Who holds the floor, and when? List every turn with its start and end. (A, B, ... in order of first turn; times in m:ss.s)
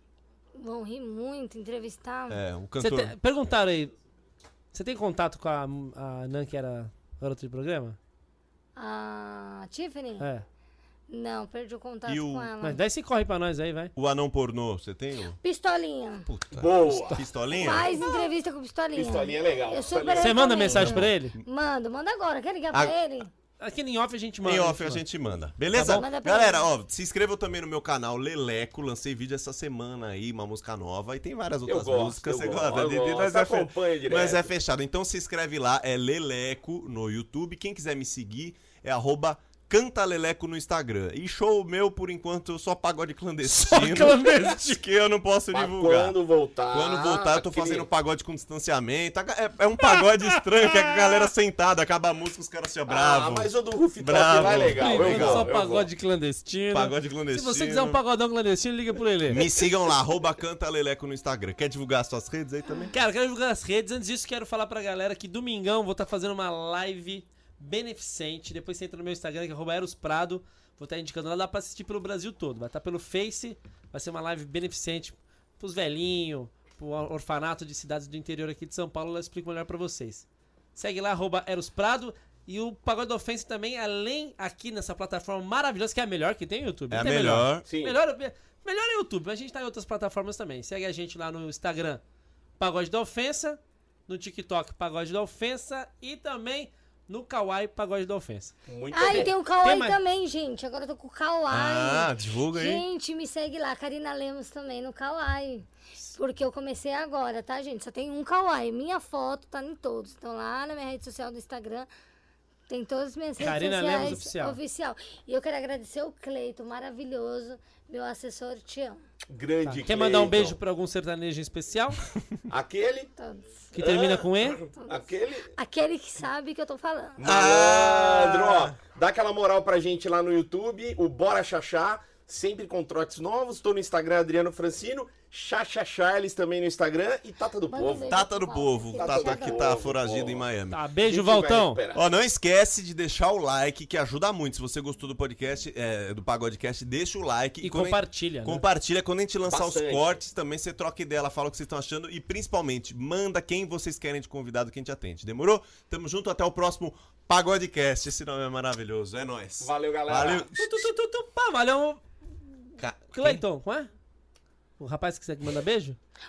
0:00.6-0:02.4 A
0:02.3-0:03.2 B
0:02.8-0:03.9 C
0:04.7-0:08.0 C
0:08.8-0:10.3 A
0:10.2-0:10.5 C
0:11.1-0:12.8 A
0:12.1-0:12.5 B
0:12.6-0:13.9 C
0:14.0-0:15.4 B
0:15.4-0:16.3 A
0:16.3-0:17.9 B
0:16.5-0:17.3 D
0:17.5-0:23.3 A
0:18.9-0:20.5 D
0:20.2-0:21.4 C
0:20.7-0:21.4 B
0:22.7-0:23.0 B
0:23.6-0:25.0 C
0:24.4-0:46.2 B
0:25.7-0:26.1 C
0:25.9-0:26.7 A
0:31.6-0:34.5 D
0:43.4-0:44.8 C
0:45.5-0:47.9 D
0:46.7-0:55.5 B
0:49.8-0:51.3 C
0:52.9-0:55.9 D
0:54.7-0:59.6 C
0:56.7-0:58.0 B
0:59.3-1:02.9 B
1:02.9-1:32.0 C
1:26.9-1:27.7 B
1:27.7-1:28.0 D
1:32.6-1:40.0 C
1:38.7-1:39.4 D
1:38.9-1:51.9 A
1:41.5-1:42.9 B
1:52.7-1:59.0 A
1:53.4-1:54.6 C
1:59.3-2:00.6 D
1:59.6-2:02.0 C
2:02.5-2:03.1 D
2:03.2-2:03.6 A
2:03.7-2:04.6 C
2:03.8-2:05.5 D
2:04.7-2:05.0 A
2:05.6-2:07.2 A
2:07.2-2:18.2 D
2:07.2-2:08.8 B
2:17.7-2:19.8 A
2:18.1-2:20.8 B
2:19.0-2:20.5 D
2:20.7-2:21.8 C
2:21.0-2:22.0 D
2:21.9-2:40.9 B
2:27.6-2:28.6 C
2:29.5-2:30.1 D
2:39.6-2:40.5 D
2:40.6-2:42.0 C
2:42.8-2:43.4 B
2:43.1-2:43.9 C
2:44.8-2:46.0 C